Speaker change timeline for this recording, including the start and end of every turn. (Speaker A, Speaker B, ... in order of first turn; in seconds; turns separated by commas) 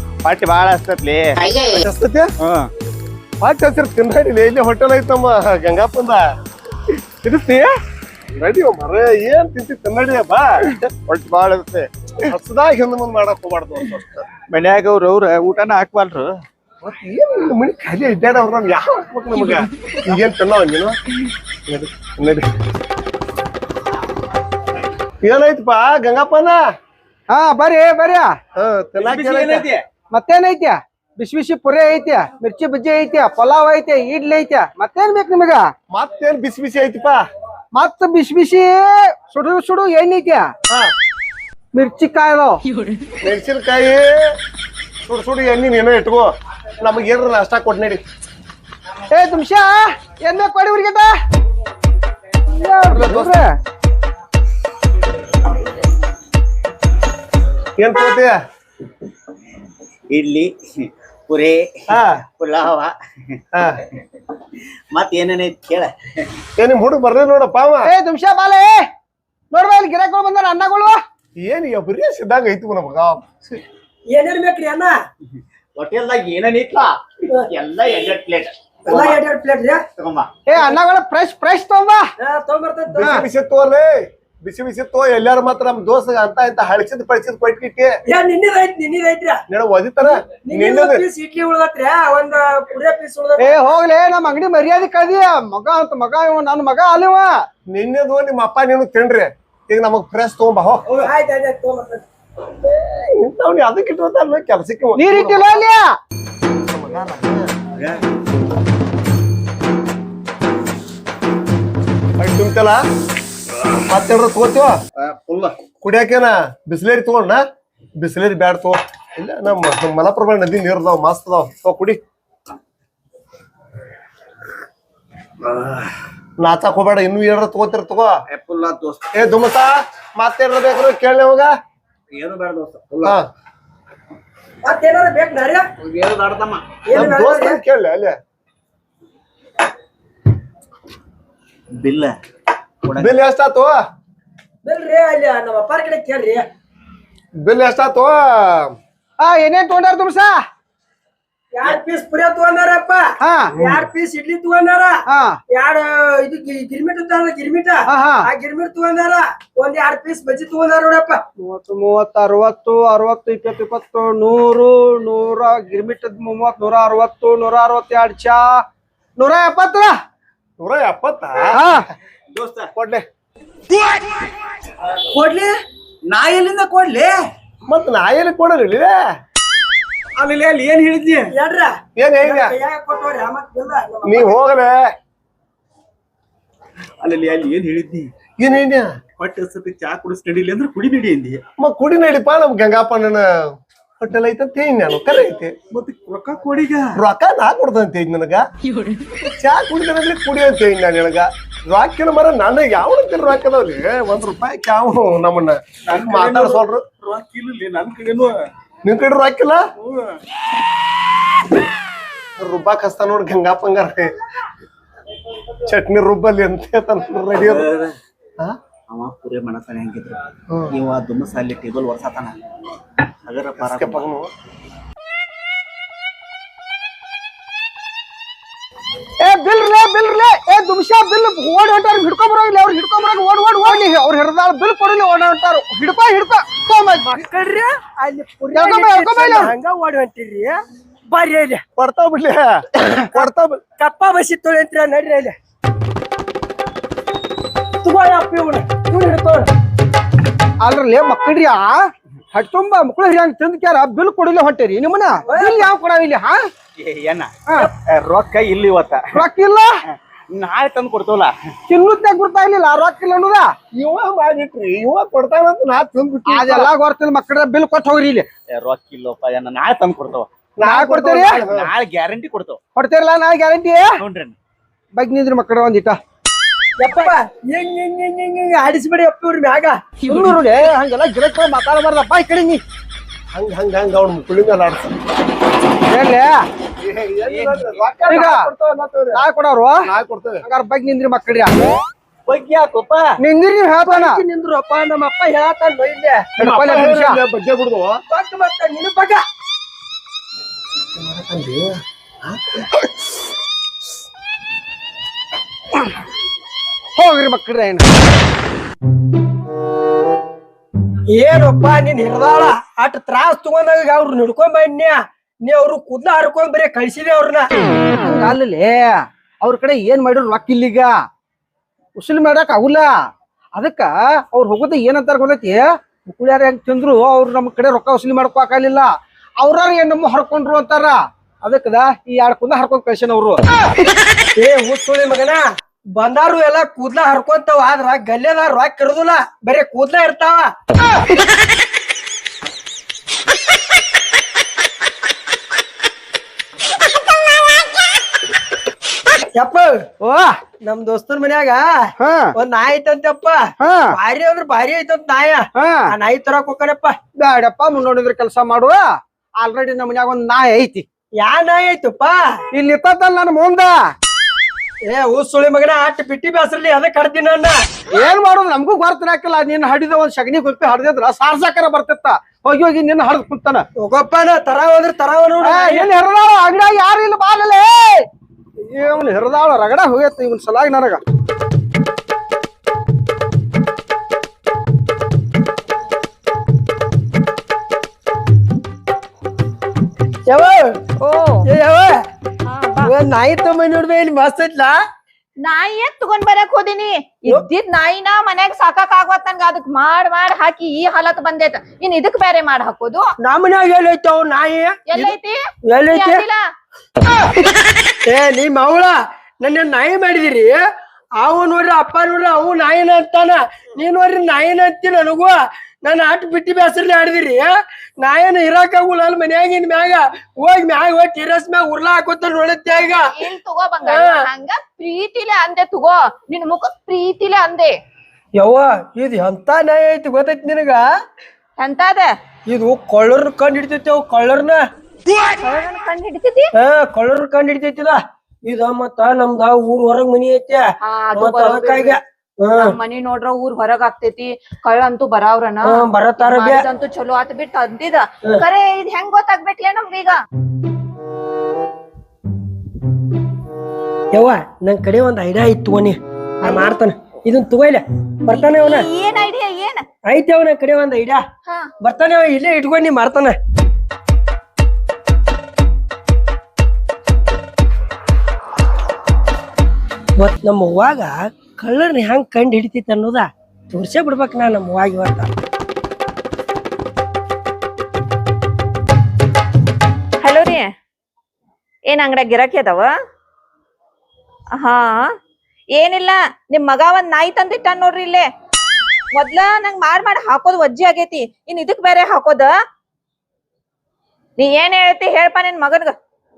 Speaker A: 0.2-1.6, Speaker B: 1.7-2.3, Speaker A: 2.4-2.7, Speaker B: 3.4-6.2, Speaker A: 7.2-7.7, Speaker B: 8.3-10.5, Speaker A: 10.7-11.9, Speaker B: 12.3-14.3, Speaker A: 14.5-16.4, Speaker B: 16.8-20.9, Speaker C: 19.3-19.7, Speaker B: 21.7-22.4, Speaker B: 25.2-26.6, Speaker D: 27.3-28.3, Speaker B: 28.6-29.7, Speaker A: 29.0-29.8, Speaker D: 30.1-35.7, Speaker B: 35.9-37.2, Speaker D: 37.7-40.5, Speaker D: 41.7-42.6, Speaker C: 42.7-43.1, Speaker B: 43.2-44.1, Speaker B: 45.0-48.0, Speaker D: 49.1-51.1, Speaker D: 52.5-53.5, Speaker B: 52.9-53.4, Speaker B: 57.8-58.4, Speaker A: 60.1-62.9, Speaker B: 61.9-62.2, Speaker A: 64.9-65.9, Speaker B: 66.6-67.9, Speaker D: 67.8-68.8, Speaker D: 69.5-71.0, Speaker B: 71.4-73.6, Speaker E: 74.1-74.9, Speaker A: 75.8-79.0, Speaker E: 78.8-79.8, Speaker B: 78.9-79.1, Speaker A: 80.0-80.3, Speaker D: 80.5-82.0, Speaker E: 82.2-83.2, Speaker B: 82.9-87.9, Speaker E: 88.1-89.4, Speaker B: 89.5-91.0, Speaker E: 90.0-93.6, Speaker D: 93.4-97.3, Speaker B: 97.7-100.8, Speaker E: 100.9-102.0, Speaker B: 102.6-105.6, Speaker D: 105.0-106.0, Speaker B: 106.6-107.5, Speaker A: 107.8-108.0, Speaker B: 112.2-112.8, Speaker B: 113.9-114.7, Speaker A: 115.0-115.5, Speaker B: 115.8-117.4, Speaker B: 118.0-122.0, Speaker A: 125.5-125.8, Speaker B: 126.4-128.1, Speaker A: 128.3-129.1, Speaker B: 129.1-131.5, Speaker A: 132.1-133.2, Speaker E: 134.6-135.7, Speaker A: 135.8-136.6, Speaker E: 136.8-137.6, Speaker B: 136.9-138.2, Speaker A: 141.7-142.1, Speaker A: 142.8-143.2, Speaker B: 142.9-143.8, Speaker E: 144.6-146.4, Speaker B: 147.4-148.7, Speaker D: 149.2-150.4, Speaker E: 151.5-161.2, Speaker D: 153.2-153.6, Speaker D: 155.1-155.4, Speaker D: 157.9-158.3, Speaker D: 161.4-168.6, Speaker D: 169.2-169.9, Speaker B: 170.6-171.8, Speaker D: 171.5-171.8, Speaker A: 172.3-172.7, Speaker B: 172.7-173.0, Speaker E: 175.1-175.5, Speaker A: 176.1-177.2, Speaker B: 177.7-179.0, Speaker A: 180.2-181.3, Speaker E: 181.3-184.3, Speaker B: 181.9-182.5, Speaker B: 184.0-184.8, Speaker A: 187.0-188.1, Speaker B: 188.4-188.9, Speaker A: 189.2-191.4, Speaker B: 191.6-193.2, Speaker B: 194.0-195.5, Speaker A: 195.7-197.0, Speaker B: 196.9-198.4, Speaker C: 198.6-199.2, Speaker B: 199.2-206.8, Speaker A: 205.8-208.4, Speaker B: 208.8-209.6, Speaker A: 209.8-210.1, Speaker B: 212.4-214.1, Speaker B: 215.7-217.7, Speaker A: 217.4-217.9, Speaker A: 218.9-222.3, Speaker A: 223.2-224.0, Speaker B: 223.6-224.3, Speaker D: 229.2-237.1, Speaker E: 237.0-241.6, Speaker D: 238.5-239.5, Speaker B: 241.8-243.6, Speaker E: 243.8-245.3, Speaker E: 247.8-249.5, Speaker D: 250.6-251.8, Speaker D: 252.3-256.4, Speaker E: 255.2-255.7, Speaker A: 256.8-259.2, Speaker D: 259.1-259.7, Speaker A: 259.9-261.3, Speaker D: 261.7-263.5, Speaker B: 263.7-266.7, Speaker D: 266.3-268.3, Speaker A: 268.5-270.3, Speaker B: 270.6-271.7, Speaker D: 270.6-271.4, Speaker A: 271.4-272.6, Speaker D: 272.8-273.9, Speaker A: 274.0-274.4, Speaker D: 274.9-276.0, Speaker E: 276.8-279.8, Speaker D: 280.1-282.6, Speaker B: 283.3-284.9, Speaker D: 285.9-286.4, Speaker B: 286.8-289.2, Speaker A: 287.2-287.8, Speaker D: 288.1-288.5, Speaker D: 289.1-289.9, Speaker B: 289.8-290.4, Speaker D: 290.4-291.5, Speaker A: 292.3-293.1, Speaker D: 293.2-294.2, Speaker E: 293.8-296.3, Speaker B: 296.4-298.0, Speaker D: 296.4-297.2, Speaker E: 298.1-299.2, Speaker B: 301.0-302.8, Speaker D: 306.9-307.9, Speaker E: 311.1-317.5, Speaker D: 318.0-320.9, Speaker D: 322.0-322.9, Speaker D: 323.6-328.9, Speaker D: 329.4-333.4, Speaker E: 334.4-335.4, Speaker E: 336.0-340.5, Speaker E: 349.3-349.9, Speaker D: 350.0-350.3, Speaker E: 350.6-356.9, Speaker D: 352.0-352.3, Speaker D: 353.6-354.0, Speaker D: 355.6-355.9, Speaker D: 357.2-358.9, Speaker D: 359.4-360.8, Speaker E: 361.2-362.4, Speaker D: 362.5-363.8, Speaker E: 364.8-367.6, Speaker D: 367.9-373.6, Speaker E: 373.8-375.9, Speaker D: 375.4-378.0, Speaker D: 378.6-381.0, Speaker E: 390.2-390.8, Speaker C: 391.0-391.5, Speaker E: 391.4-392.0, Speaker C: 392.4-392.9, Speaker E: 392.8-394.7, Speaker C: 395.4-403.0, Speaker E: 403.2-405.1, Speaker C: 404.9-406.4, Speaker E: 405.7-406.2, Speaker E: 408.1-410.6, Speaker E: 411.2-423.2, Speaker C: 422.8-427.7, Speaker E: 423.8-424.2, Speaker E: 428.3-430.9, Speaker C: 431.6-432.1, Speaker E: 432.5-434.6, Speaker C: 435.4-436.5, Speaker E: 436.5-442.7, Speaker C: 440.8-442.0, Speaker C: 442.7-450.2, Speaker E: 445.7-446.6, Speaker E: 454.1-458.9, Speaker C: 458.4-459.8, Speaker E: 460.1-461.2, Speaker E: 461.8-463.4, Speaker E: 470.2-475.3, Speaker C: 480.2-480.6, Speaker C: 481.9-482.9, Speaker C: 484.6-485.1, Speaker C: 485.8-488.2, Speaker C: 489.1-492.5, Speaker C: 494.4-495.9